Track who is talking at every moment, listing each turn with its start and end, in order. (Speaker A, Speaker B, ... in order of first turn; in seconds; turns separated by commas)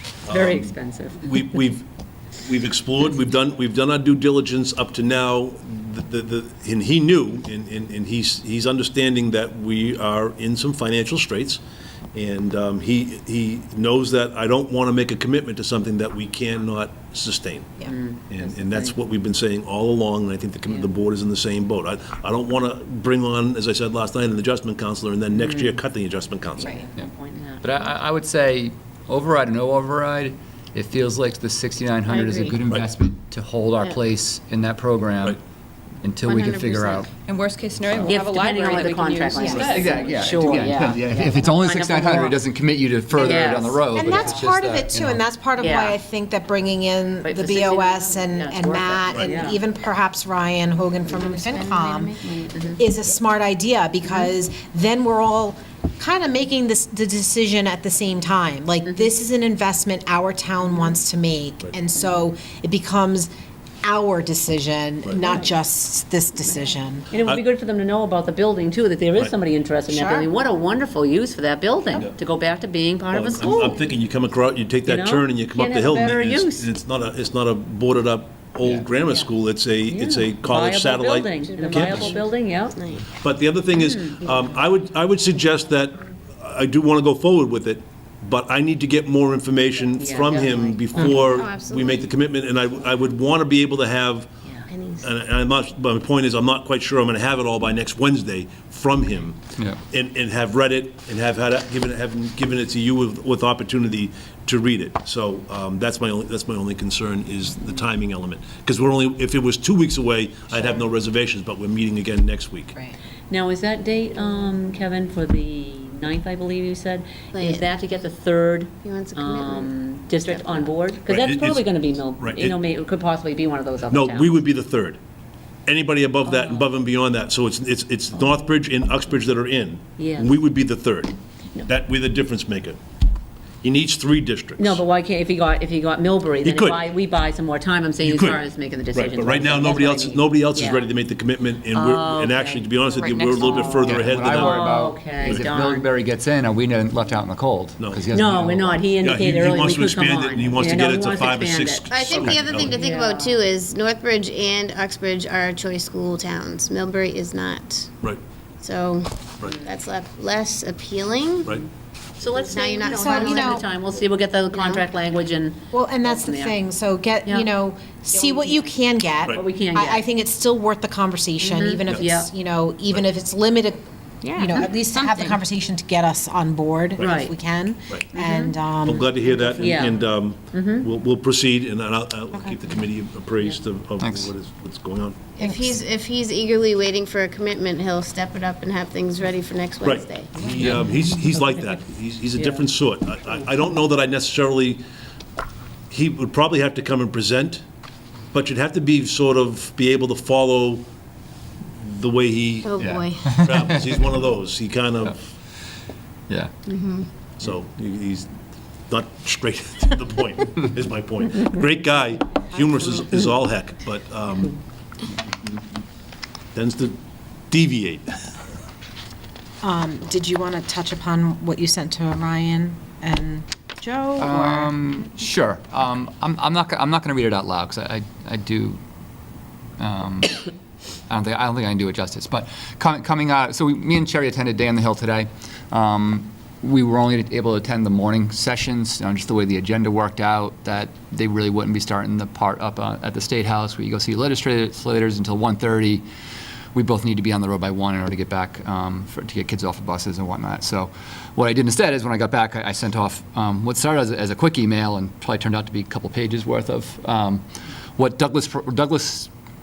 Speaker A: 0.3-1.9, Speaker B: 0.3-1.3, Speaker A: 2.4-11.6, Speaker A: 12.1-26.8, Speaker B: 17.9-19.0, Speaker B: 25.3-25.8, Speaker B: 26.6-27.6, Speaker C: 27.6-35.4, Speaker D: 32.1-32.5, Speaker C: 36.0-37.1, Speaker D: 36.2-37.1, Speaker E: 37.3-40.1, Speaker C: 37.8-38.1, Speaker B: 38.0-42.4, Speaker A: 39.5-39.8, Speaker C: 39.6-45.2, Speaker B: 43.1-44.4, Speaker F: 43.9-52.1, Speaker B: 45.6-46.0, Speaker B: 47.2-49.6, Speaker D: 51.1-52.8, Speaker F: 52.8-63.3, Speaker F: 63.8-67.1, Speaker A: 65.0-65.3, Speaker B: 67.1-73.8, Speaker F: 69.9-70.3, Speaker A: 73.1-82.0, Speaker B: 74.8-76.7, Speaker B: 79.9-82.8, Speaker D: 81.7-83.1, Speaker A: 83.1-94.3, Speaker B: 83.7-84.5, Speaker B: 89.9-91.2, Speaker D: 90.9-92.1, Speaker D: 94.7-95.1, Speaker A: 95.0-99.4, Speaker A: 99.9-112.8, Speaker B: 113.3-124.5, Speaker D: 117.3-117.7, Speaker D: 118.8-120.7, Speaker A: 121.0-122.6, Speaker A: 123.9-125.0, Speaker A: 125.7-132.8, Speaker B: 126.2-126.7, Speaker B: 130.0-130.4, Speaker A: 133.6-134.8, Speaker B: 134.6-140.9, Speaker A: 136.4-136.9, Speaker A: 138.0-144.6, Speaker B: 141.7-142.8, Speaker E: 142.9-144.0, Speaker B: 143.4-145.9, Speaker C: 143.7-148.8, Speaker A: 147.8-152.8, Speaker B: 148.1-153.4, Speaker D: 151.9-157.9, Speaker D: 158.6-161.5, Speaker B: 162.2-166.6, Speaker D: 162.4-163.6, Speaker F: 162.9-163.6, Speaker F: 165.7-179.1, Speaker B: 167.3-167.5, Speaker B: 168.1-168.7, Speaker B: 169.3-170.1, Speaker B: 171.4-172.3, Speaker D: 174.2-174.6, Speaker B: 174.4-175.4, Speaker A: 177.0-177.3, Speaker B: 177.0-177.3, Speaker B: 178.1-178.6, Speaker A: 178.8-185.3, Speaker B: 179.6-180.9, Speaker C: 184.0-184.3, Speaker D: 185.4-190.4, Speaker F: 185.4-185.8, Speaker A: 189.8-194.8, Speaker A: 195.9-197.6, Speaker A: 198.3-200.8, Speaker A: 201.8-202.8, Speaker D: 202.6-203.3, Speaker C: 202.8-204.1, Speaker A: 203.3-205.3, Speaker D: 206.7-207.1, Speaker A: 207.4-208.3, Speaker A: 208.9-214.6, Speaker A: 216.6-217.0, Speaker A: 217.5-218.3, Speaker F: 219.6-224.7, Speaker C: 224.2-228.8, Speaker C: 229.8-230.4, Speaker C: 231.1-246.0, Speaker C: 246.7-257.4, Speaker C: 258.0-259.3